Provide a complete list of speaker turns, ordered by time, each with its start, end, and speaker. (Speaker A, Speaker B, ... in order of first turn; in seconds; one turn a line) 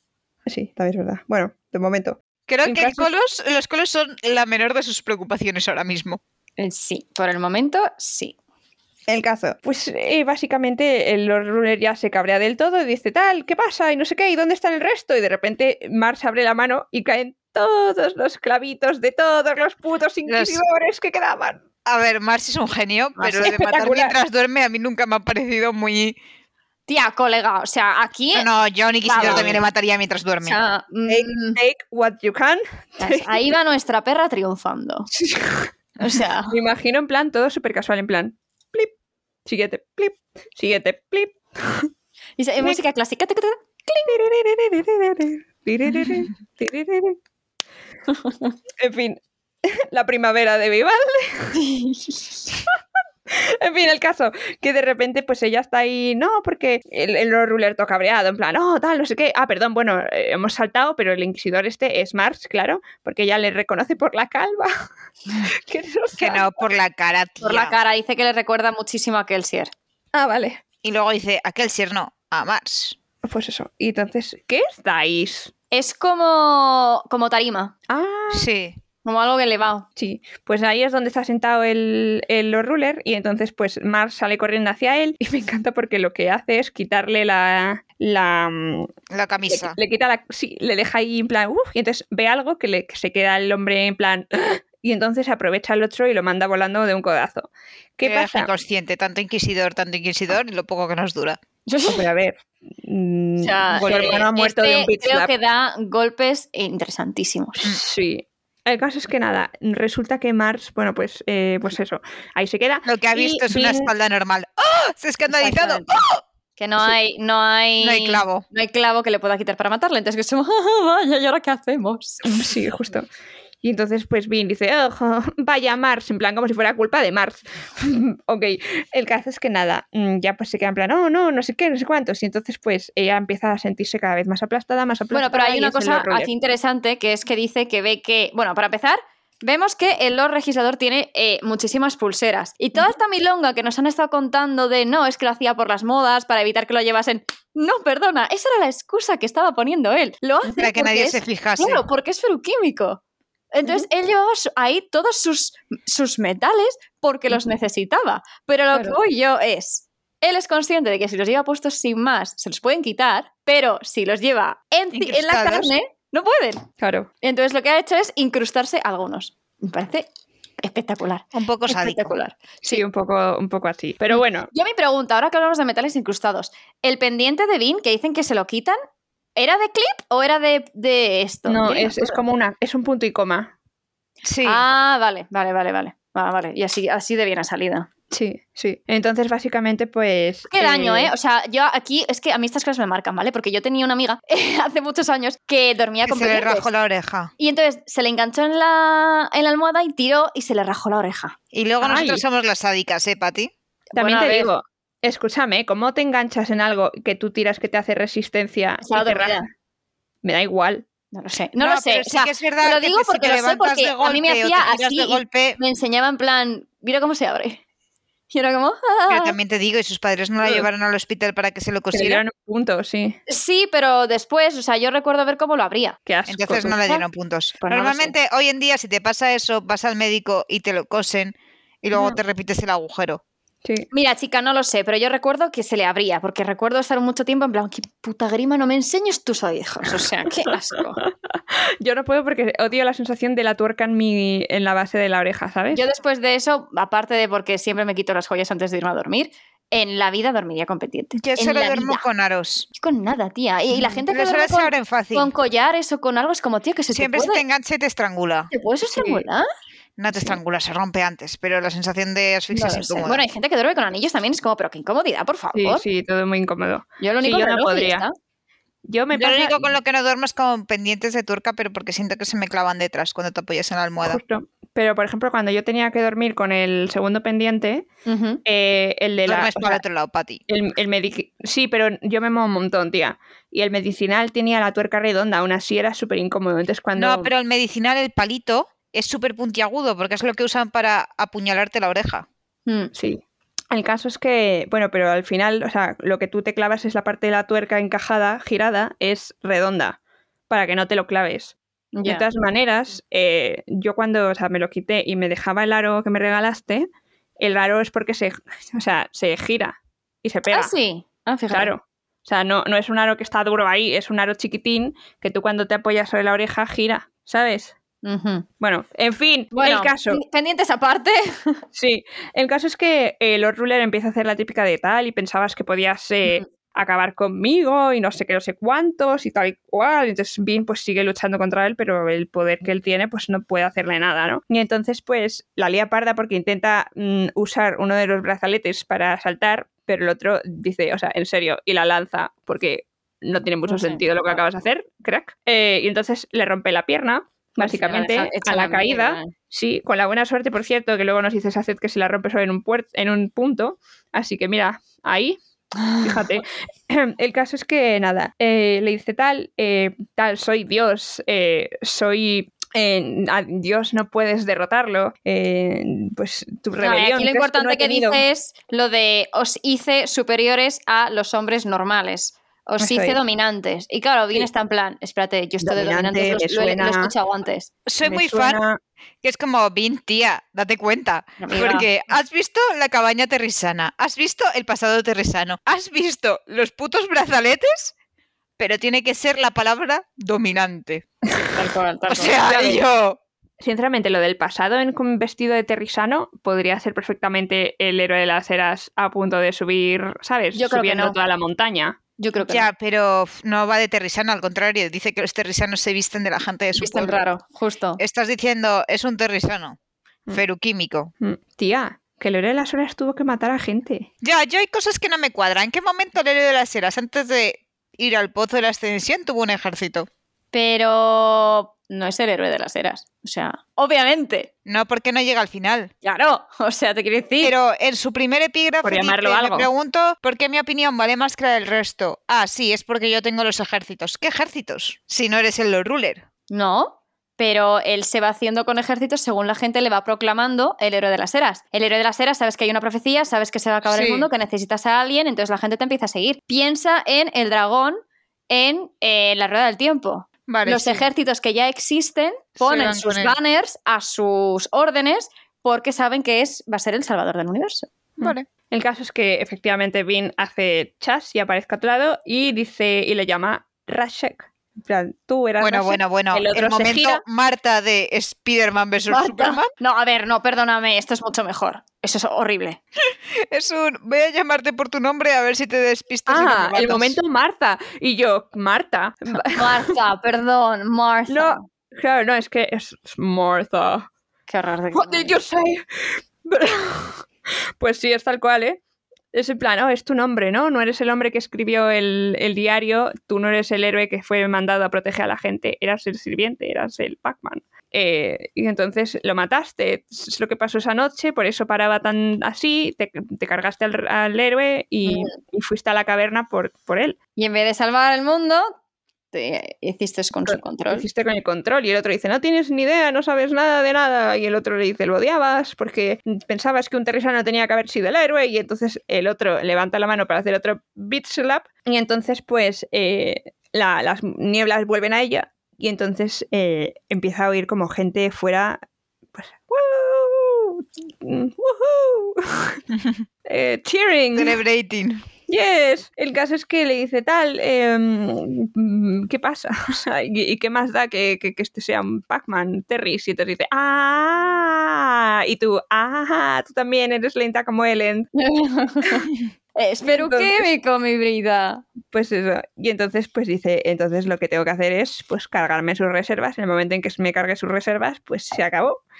Speaker A: 0.5-3.1
Speaker B: 2.5-6.2
Speaker C: 6.6-8.4
Speaker A: 9.1-21.6
Speaker B: 20.3-20.6
Speaker B: 21.9-26.2
Speaker C: 23.2-23.5
Speaker A: 23.4-24.2
Speaker C: 26.9-28.5
Speaker B: 28.3-30.6
Speaker C: 29.1-29.6
Speaker A: 29.2-29.6
Speaker C: 30.4-31.6
Speaker A: 31.1-33.4
Speaker C: 33.0-35.1
Speaker A: 35.1-35.7
Speaker C: 36.0-36.5
Speaker A: 36.5-38.9
Speaker A: 39.5-41.9
Speaker C: 42.4-43.6
Speaker A: 43.9-47.2
Speaker A: 48.8-51.6
Speaker C: 51.6-52.2
Speaker A: 53.3-64.7
Speaker A: 65.4-66.6
Speaker B: 66.2-67.8
Speaker C: 67.4-69.7
Speaker A: 70.1-70.6
Speaker B: 70.8-73.0
Speaker A: 73.2-75.5
Speaker C: 75.7-77.7
Speaker A: 77.9-78.5
Speaker B: 78.3-78.8
Speaker C: 79.0-79.9
Speaker A: 80.0-88.9
Speaker B: 89.1-89.8
Speaker A: 89.5-98.5
Speaker B: 98.0-101.4
Speaker C: 101.7-102.0
Speaker A: 101.8-105.3
Speaker C: 103.4-107.7
Speaker B: 103.8-104.3
Speaker A: 107.7-113.9
Speaker B: 112.8-116.2
Speaker A: 115.3-115.9
Speaker C: 116.6-122.5
Speaker B: 117.8-118.4
Speaker A: 122.2-123.1
Speaker A: 123.6-136.3
Speaker C: 135.1-153.0
Speaker B: 150.6-151.8
Speaker C: 153.5-166.7
Speaker A: 158.7-159.0
Speaker B: 164.9-165.7
Speaker A: 166.8-167.1
Speaker C: 167.2-170.1
Speaker C: 170.6-172.8
Speaker B: 171.3-172.2
Speaker A: 172.6-174.5
Speaker C: 174.1-178.8
Speaker C: 179.4-182.2
Speaker A: 181.5-183.5
Speaker B: 184.2-184.6
Speaker C: 184.4-187.9
Speaker A: 188.1-191.1
Speaker C: 190.5-196.7
Speaker B: 196.0-197.3
Speaker C: 197.4-201.3
Speaker B: 201.5-203.5
Speaker A: 201.8-202.2
Speaker C: 203.9-204.5
Speaker A: 203.9-209.4
Speaker C: 208.8-209.4
Speaker A: 210.2-210.8
Speaker C: 211.1-217.6
Speaker B: 211.6-215.6
Speaker C: 218.3-219.4
Speaker B: 219.1-222.2
Speaker A: 221.9-223.2
Speaker C: 223.3-226.0
Speaker A: 226.1-226.8
Speaker B: 226.3-233.2
Speaker C: 226.6-227.1
Speaker C: 227.6-228.1
Speaker C: 233.9-241.0
Speaker A: 240.4-245.8
Speaker C: 245.7-252.0
Speaker B: 251.2-252.7
Speaker C: 252.7-257.4
Speaker B: 254.1-255.3
Speaker B: 256.9-258.5
Speaker C: 258.5-259.5
Speaker A: 258.9-259.2
Speaker B: 260.0-263.2
Speaker C: 262.5-265.8
Speaker A: 265.5-268.1
Speaker C: 267.0-268.1
Speaker A: 268.9-269.7
Speaker B: 269.1-274.2
Speaker A: 274.0-277.9
Speaker C: 278.1-278.4
Speaker A: 278.4-279.8
Speaker B: 279.3-280.4
Speaker A: 280.5-287.3
Speaker B: 287.0-292.3
Speaker C: 292.7-292.9
Speaker A: 292.9-300.0
Speaker A: 300.5-306.9
Speaker C: 301.9-302.3
Speaker A: 307.4-310.7
Speaker C: 310.5-311.7
Speaker A: 311.5-317.8
Speaker C: 318.0-318.5
Speaker A: 318.6-320.2
Speaker C: 319.5-321.6
Speaker A: 321.7-355.4
Speaker C: 343.7-344.4
Speaker C: 347.6-349.3
Speaker C: 355.8-356.2
Speaker A: 356.0-368.2
Speaker C: 366.8-377.7
Speaker A: 372.8-373.2
Speaker A: 375.6-377.1
Speaker B: 377.9-378.6
Speaker A: 378.0-378.8
Speaker B: 379.2-387.9
Speaker C: 381.4-381.9
Speaker B: 388.6-391.1
Speaker C: 391.5-392.6
Speaker B: 392.1-393.2
Speaker A: 392.4-392.8
Speaker A: 393.6-402.0
Speaker C: 400.6-401.2
Speaker C: 402.2-402.7
Speaker B: 402.5-407.3
Speaker C: 406.8-408.0
Speaker B: 408.0-409.8
Speaker B: 410.3-411.1
Speaker A: 411.2-414.1
Speaker B: 414.2-420.1
Speaker C: 420.5-424.5
Speaker B: 424.7-425.9
Speaker C: 426.0-427.5
Speaker B: 427.4-436.2
Speaker A: 428.8-429.7
Speaker C: 436.5-457.9
Speaker B: 443.9-444.3
Speaker B: 450.5-451.1
Speaker B: 452.6-453.4
Speaker B: 458.2-458.5
Speaker A: 458.2-467.2
Speaker B: 465.6-469.7
Speaker C: 469.1-472.8
Speaker B: 473.5-477.2
Speaker A: 476.3-480.0
Speaker C: 479.4-481.6
Speaker A: 481.3-484.1
Speaker C: 484.5-485.3
Speaker A: 484.9-487.3
Speaker A: 487.8-488.8
Speaker A: 489.3-507.2
Speaker C: 505.1-505.3
Speaker C: 507.4-508.8
Speaker C: 509.3-511.1
Speaker A: 510.5-528.8
Speaker A: 529.4-532.8
Speaker B: 532.9-533.2
Speaker A: 533.5-534.6
Speaker B: 534.4-535.2
Speaker A: 535.5-548.3
Speaker C: 548.4-551.8
Speaker A: 550.0-550.7
Speaker A: 552.1-559.0